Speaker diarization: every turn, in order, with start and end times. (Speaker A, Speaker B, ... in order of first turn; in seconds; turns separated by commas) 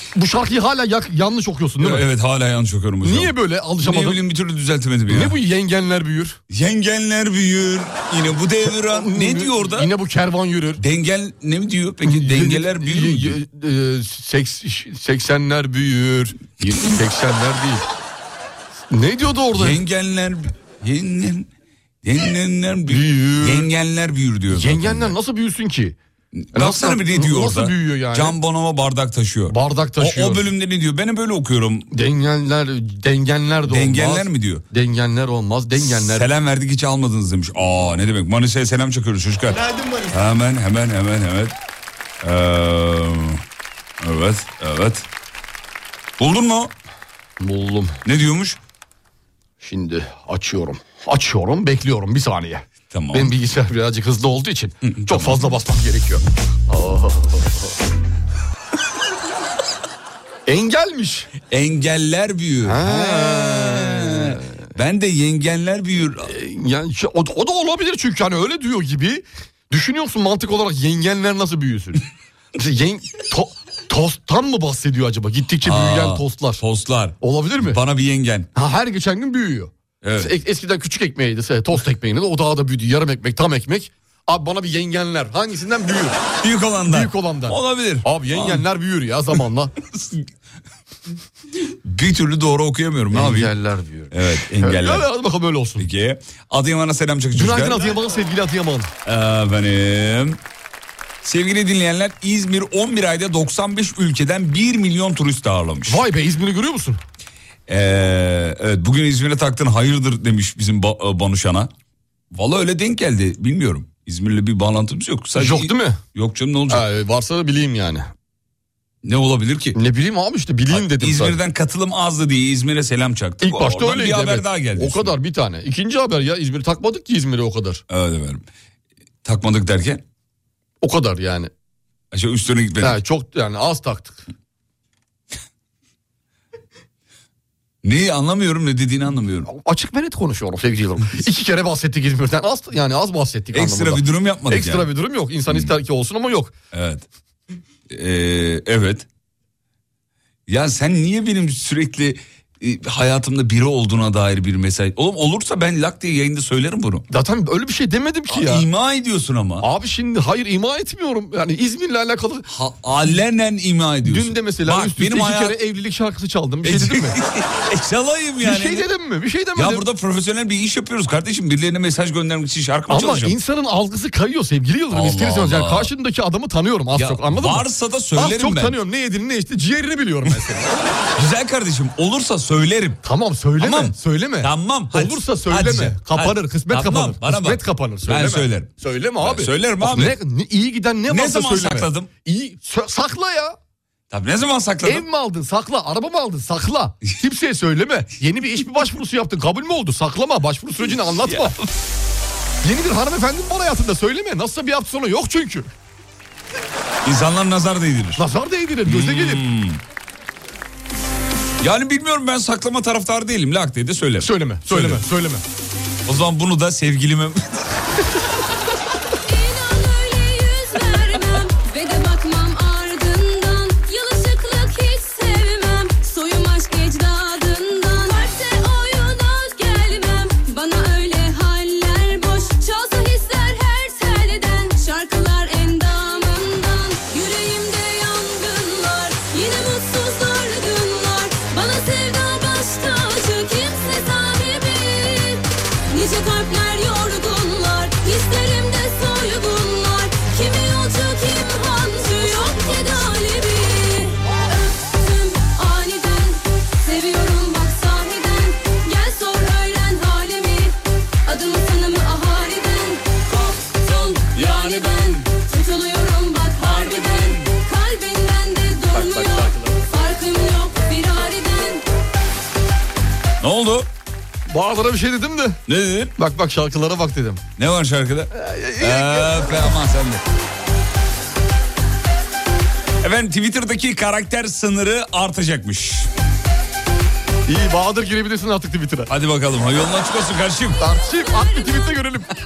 Speaker A: 0.1-2.0, Speaker B: 1.8-5.4, Speaker A: 3.0-4.2, Speaker A: 5.1-6.4, Speaker B: 6.5-9.9, Speaker A: 8.7-10.8, Speaker B: 10.8-13.4, Speaker A: 12.0-17.8, Speaker A: 18.9-19.8, Speaker B: 19.5-21.5, Speaker B: 22.0-25.1, Speaker A: 22.9-23.7, Speaker A: 24.5-26.0, Speaker B: 26.4-31.9, Speaker A: 26.5-28.4, Speaker A: 29.5-30.5, Speaker A: 31.9-36.3, Speaker B: 33.7-34.6, Speaker B: 35.8-41.5, Speaker B: 42.2-43.4, Speaker B: 44.0-45.1, Speaker B: 46.2-46.7, Speaker A: 47.4-48.0, Speaker B: 48.0-48.6, Speaker A: 49.6-57.7, Speaker B: 52.9-53.3, Speaker B: 54.8-55.4, Speaker A: 60.5-61.3, Speaker B: 61.5-66.3, Speaker A: 62.6-64.4, Speaker A: 66.2-72.0, Speaker A: 72.6-76.6, Speaker B: 75.6-78.5, Speaker A: 77.2-77.8, Speaker A: 78.6-86.2, Speaker B: 80.0-80.3, Speaker B: 86.4-88.7, Speaker A: 86.9-89.7, Speaker B: 89.9-90.2, Speaker B: 91.8-93.5, Speaker A: 93.1-95.9, Speaker B: 94.1-95.1, Speaker B: 95.8-97.9, Speaker A: 97.3-98.9, Speaker B: 99.1-100.4, Speaker B: 101.2-106.0, Speaker A: 105.9-107.0, Speaker B: 107.7-111.7, Speaker B: 112.3-116.9, Speaker A: 115.3-116.0, Speaker A: 116.7-118.1, Speaker B: 119.0-119.8, Speaker A: 119.8-121.4, Speaker B: 120.7-125.2, Speaker A: 123.4-127.8, Speaker B: 127.9-128.4, Speaker B: 129.2-130.0, Speaker A: 130.8-131.5, Speaker B: 132.1-133.0, Speaker A: 132.8-134.2, Speaker B: 137.8-139.5, Speaker A: 139.5-146.5, Speaker B: 143.5-144.9, Speaker B: 146.7-147.0, Speaker B: 147.9-149.1, Speaker B: 150.5-157.0, Speaker A: 157.1-158.7, Speaker B: 158.3-159.7, Speaker A: 159.6-162.5, Speaker B: 162.5-165.6, Speaker A: 164.1-167.2, Speaker B: 166.6-168.9, Speaker A: 168.4-169.9, Speaker B: 169.6-173.4, Speaker A: 172.9-180.8, Speaker B: 174.9-175.9, Speaker B: 176.9-178.8, Speaker B: 181.2-183.0, Speaker A: 183.0-193.6, Speaker B: 183.6-190.2, Speaker B: 191.1-192.1, Speaker B: 194.1-195.1, Speaker A: 194.8-201.6, Speaker B: 201.3-201.6, Speaker A: 202.6-205.7, Speaker B: 207.1-208.2, Speaker A: 208.2-209.4, Speaker B: 208.8-209.8, Speaker B: 211.6-215.1, Speaker A: 214.2-215.4, Speaker B: 216.1-217.6, Speaker C: 219.3-271.8, Speaker A: 269.1-269.4, Speaker B: 273.4-273.9, Speaker A: 274.5-275.6, Speaker B: 275.7-276.1, Speaker A: 276.2-277.4, Speaker B: 277.6-280.2, Speaker A: 278.4-279.7, Speaker B: 283.0-286.1, Speaker A: 287.5-289.1, Speaker B: 289.1-290.8, Speaker A: 290.8-292.4, Speaker C: 291.1-292.0